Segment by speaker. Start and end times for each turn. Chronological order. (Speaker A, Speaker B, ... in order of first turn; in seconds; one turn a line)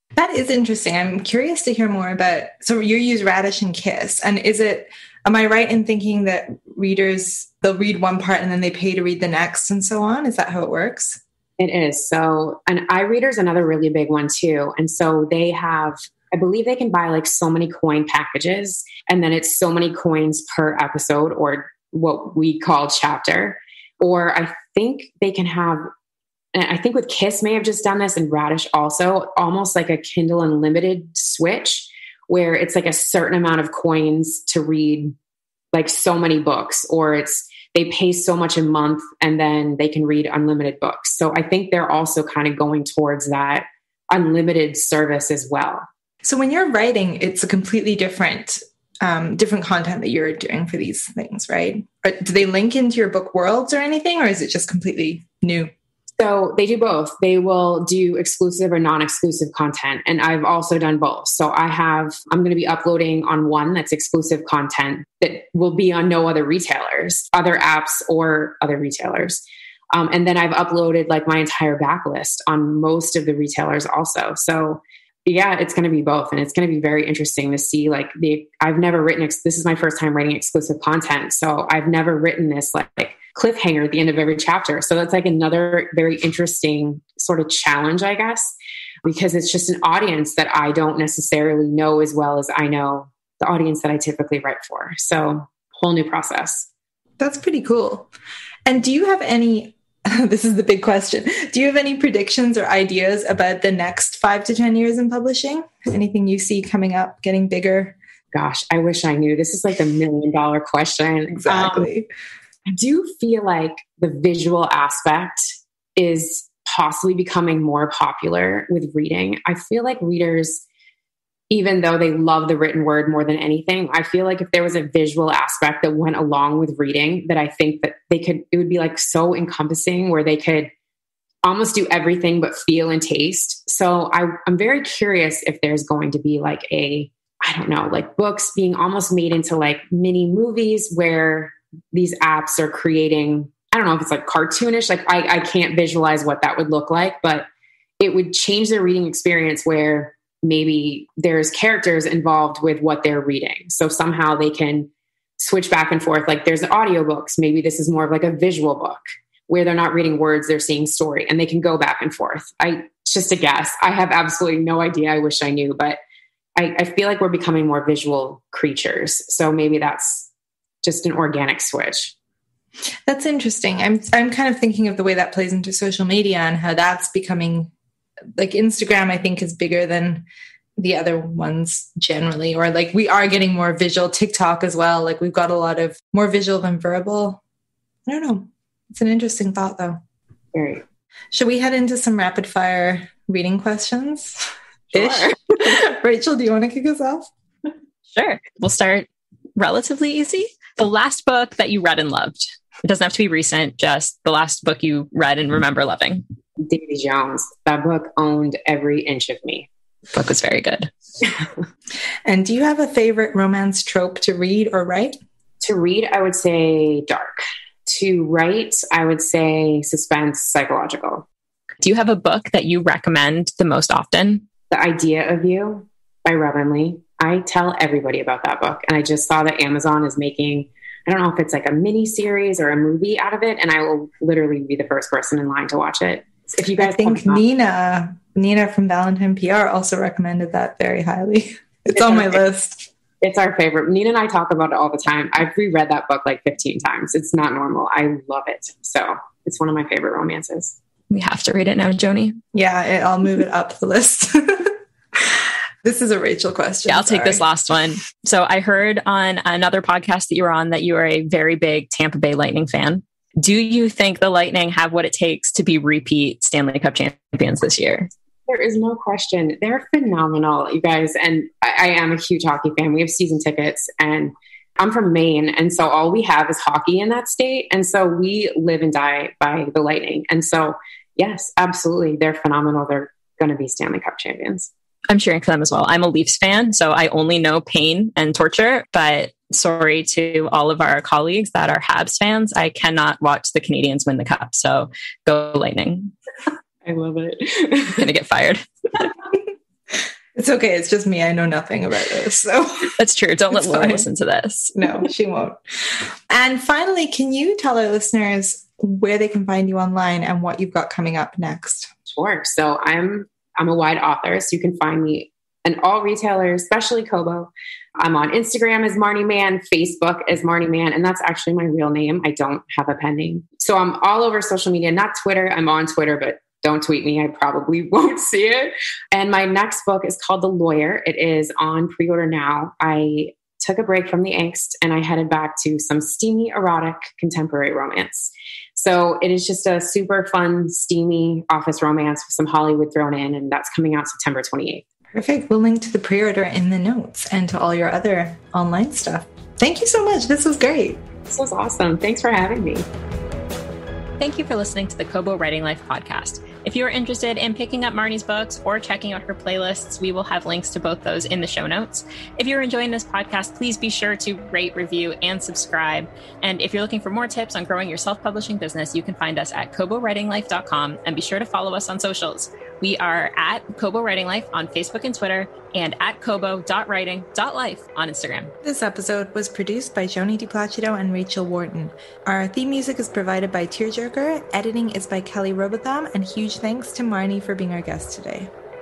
Speaker A: 0.1-11.2
Speaker B: 11.6-25.9
Speaker B: 26.5-35.1
Speaker B: 35.7-45.9
Speaker A: 46.2-55.7
Speaker B: 56.2-69.4
Speaker B: 69.9-96.7
Speaker A: 97.2-98.1
Speaker A: 98.7-108.0
Speaker B: 108.3-111.9
Speaker A: 111.4-112.1
Speaker B: 112.7-120.6
Speaker B: 121.5-130.7
Speaker B: 131.4-147.4
Speaker B: 148.0-166.0
Speaker B: 166.6-170.3
Speaker B: 170.8-172.1
Speaker A: 173.1-177.7
Speaker A: 178.4-180.2
Speaker A: 180.8-187.4
Speaker A: 188.1-190.0
Speaker B: 190.5-190.8
Speaker A: 191.3-197.3
Speaker C: 198.1-206.2
Speaker B: 206.6-209.7
Speaker C: 210.1-210.9
Speaker A: 212.2-215.2
Speaker B: 215.6-221.2
Speaker C: 221.8-224.4
Speaker B: 224.7-237.4
Speaker A: 236.8-242.9
Speaker B: 241.9-242.4
Speaker B: 243.2-250.8
Speaker C: 251.1-252.4
Speaker A: 252.5-257.4
Speaker C: 256.9-268.1
Speaker B: 268.5-284.7
Speaker C: 285.1-296.1
Speaker B: 296.8-298.0
Speaker C: 297.8-299.1
Speaker A: 300.3-303.0
Speaker C: 303.0-304.7
Speaker A: 303.5-304.1
Speaker A: 304.8-311.9
Speaker B: 312.1-344.8
Speaker A: 345.1-351.0
Speaker B: 351.3-352.9
Speaker C: 354.2-378.5
Speaker A: 378.6-388.5